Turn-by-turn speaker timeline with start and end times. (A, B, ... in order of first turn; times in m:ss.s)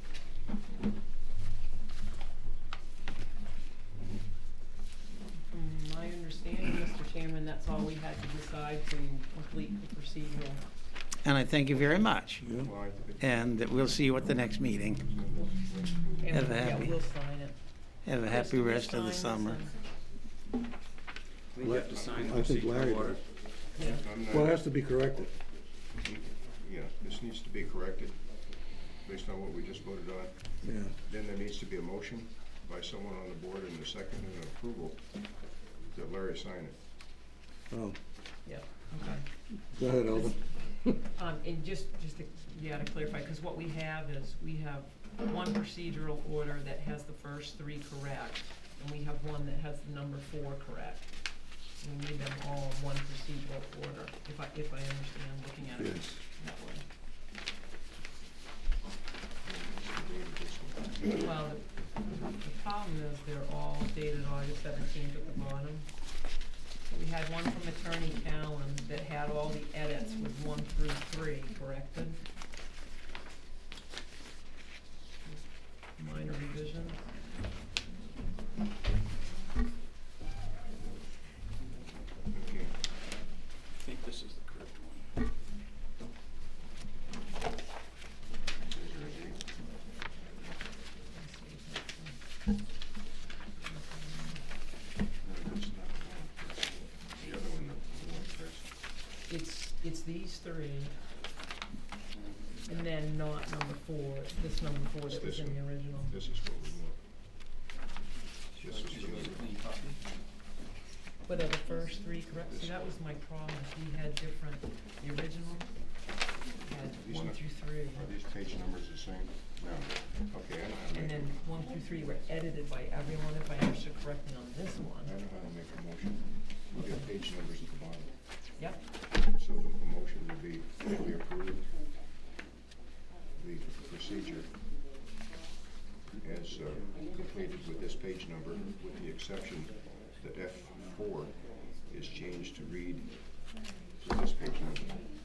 0:05.5-0:10.6 A
0:11.2-0:12.4 B
0:12.4-0:12.7 C
0:12.5-0:13.4 D
0:13.2-0:15.0 B
0:15.0-0:16.8 D
0:16.2-0:17.6 A
0:16.3-0:16.9 B
0:18.0-0:19.6 B
0:18.3-0:19.7 A
0:21.5-0:23.2 E
0:21.6-0:23.2 C
0:21.8-0:22.4 D
0:23.8-0:24.0 A
0:23.8-0:24.6 D
0:24.3-0:25.3 C
0:26.0-0:28.2 D
0:29.0-0:30.4 D
0:30.6-0:31.0 C
0:31.0-0:35.0 D
0:35.9-0:36.8 D
0:37.7-0:38.0 C
0:38.4-0:39.3 A
0:39.7-0:40.4 C
0:40.1-0:40.4 A
0:40.9-0:51.1 A
0:51.8-0:56.8 A
0:55.8-0:56.2 C
0:59.4-1:01.2 D
1:01.2-1:01.7 A
1:02.3-1:05.9 A
1:06.9-1:12.2 A
1:16.0-1:17.0 A
1:22.3-1:22.7 D
1:23.8-1:25.1 E
1:28.6-1:29.4 D
1:31.1-1:32.2 A
1:33.6-1:34.4 A
1:35.2-1:38.7 D
1:39.3-1:40.9 A
1:42.7-1:46.2 A
1:45.1-1:47.0 D
1:48.6-1:50.0 E
1:48.6-1:49.5 D
1:51.2-1:55.8 A
1:52.5-1:52.8 D
1:56.6-1:58.1 A
1:57.0-2:01.4 D
2:00.9-2:05.1 A
2:05.0-2:08.1 D
2:09.3-2:11.7 D
2:13.4-2:14.5 D
2:16.2-2:23.2 D
2:24.0-2:25.1 D